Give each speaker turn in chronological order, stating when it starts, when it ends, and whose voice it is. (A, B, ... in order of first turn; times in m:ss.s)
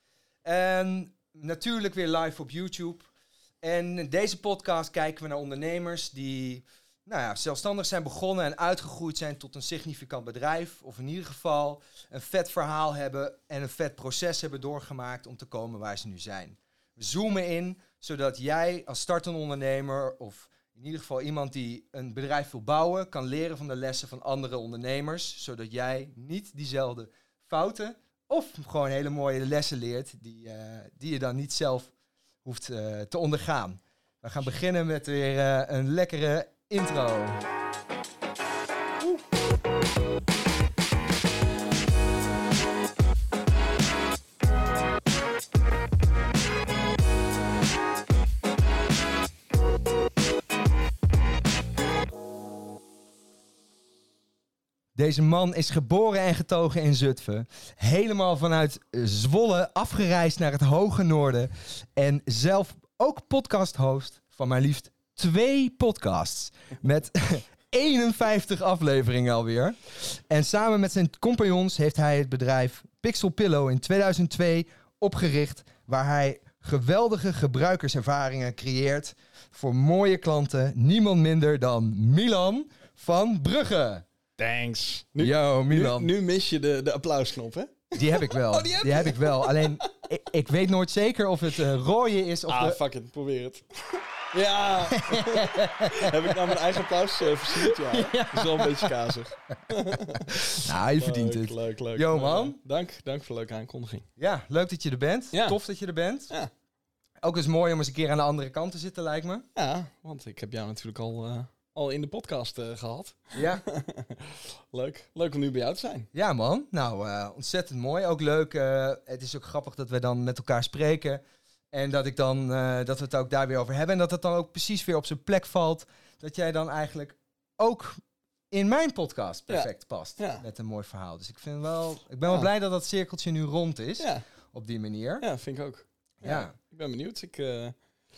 0:00.4-0:03.1 A
0:03.6-0:31.9 A
0:32.4-0:37.4 A
0:55.0-1:24.0 A
1:24.4-1:29.8 B
1:25.2-1:26.1 A
1:28.0-1:32.8 A
1:32.5-1:44.0 B
1:34.9-1:36.1 A
1:37.7-1:38.9 A
1:40.6-1:42.6 A
1:44.2-1:46.3 A
1:45.3-1:45.6 B
1:47.2-1:49.5 A
1:49.6-1:56.1 B
1:53.4-1:53.6 A
1:56.1-2:01.2 A
2:01.7-2:08.0 A
2:08.5-2:15.2 A
2:09.5-2:10.4 B
2:15.2-2:17.8 B
2:16.2-2:16.5 A